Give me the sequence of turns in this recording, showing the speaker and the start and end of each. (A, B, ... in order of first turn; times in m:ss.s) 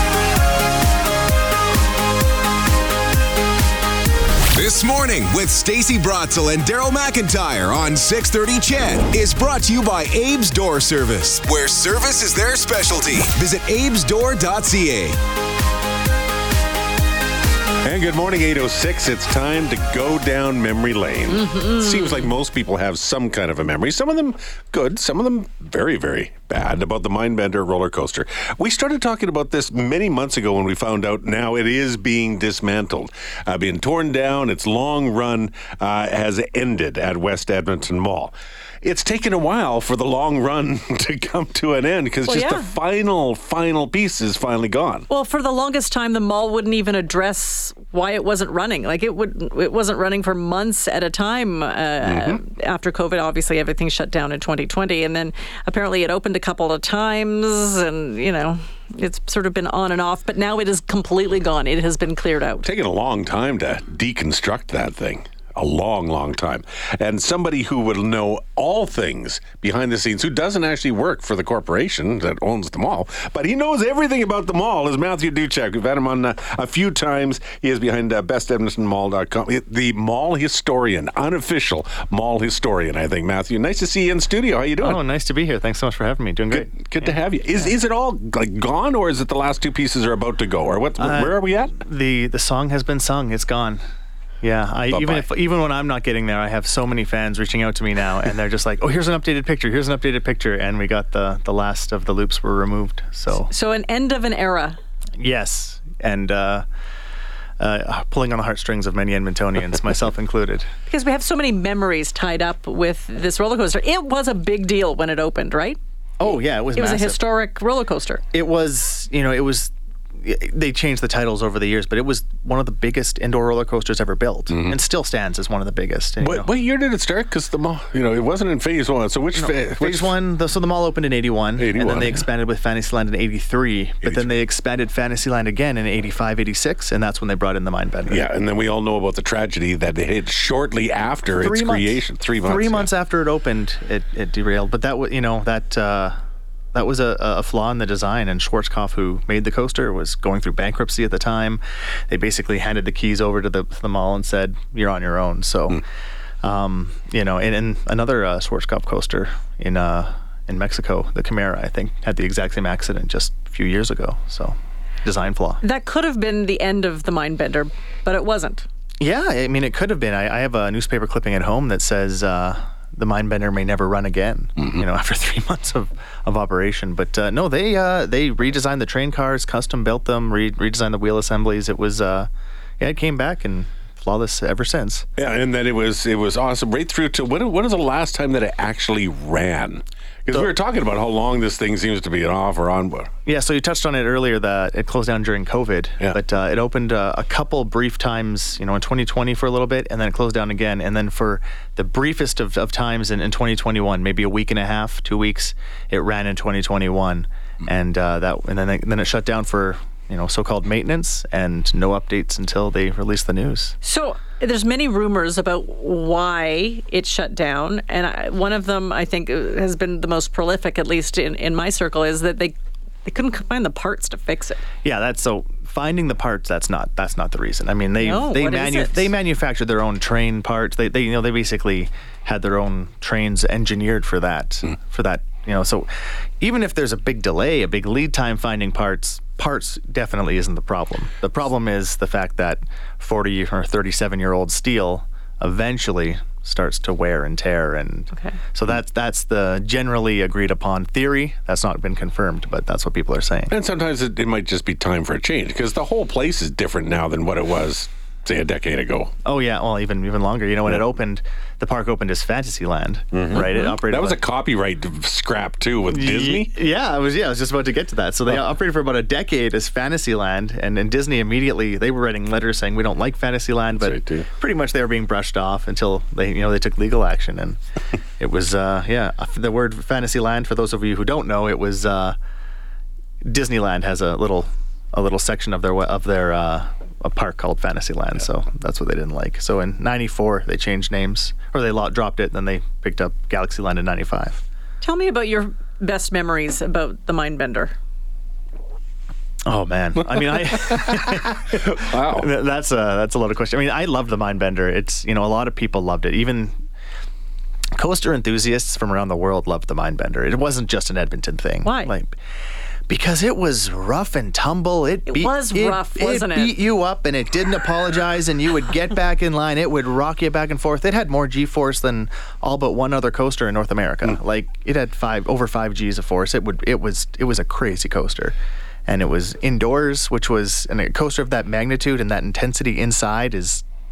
0:04.5-0:15.2 A
0:17.8-0:45.1 B
0:21.3-0:22.3 C
0:42.3-0:42.7 C
0:45.1-1:02.7 C
0:52.0-0:52.4 B
1:02.6-1:25.0 B
1:24.8-1:27.7 D
1:26.5-1:31.8 B
1:31.0-1:33.8 D
1:34.4-1:43.5 D
1:34.9-1:35.3 B
1:43.3-1:44.8 C
1:45.2-1:46.6 D
1:47.6-1:50.7 D
1:50.9-1:55.8 C
1:56.2-1:57.2 D
1:56.7-1:58.2 C
1:58.3-2:06.5 D
2:04.5-2:04.8 B
2:06.2-2:10.1 B
2:09.4-2:18.2 D
2:11.6-2:12.2 B
2:14.0-2:14.3 B
2:18.1-2:22.9 B
2:21.3-2:26.2 D
2:26.7-2:35.8 D
2:36.4-2:45.6 D
2:45.6-2:48.6 C
2:49.0-3:02.3 D
3:02.8-3:05.1 D
3:05.2-3:13.1 B
3:13.3-3:33.8 D
3:33.8-3:44.6 C
3:44.8-3:55.9 D
3:48.0-3:49.1 C
3:56.4-4:13.6 D
4:08.1-4:08.4 C
4:13.5-4:19.1 B
4:19.2-4:24.2 D
4:23.1-4:26.5 B
4:23.4-4:23.7 C
4:25.9-4:37.6 D
4:33.8-4:34.3 B
4:38.2-4:42.2 D
4:43.3-4:54.4 D
4:54.8-4:57.7 C
4:59.5-5:06.6 D
5:01.8-5:02.3 B
5:07.8-5:12.2 D
5:11.6-5:11.9 C
5:12.9-5:28.4 D
5:15.1-5:16.6 C
5:28.9-5:33.6 D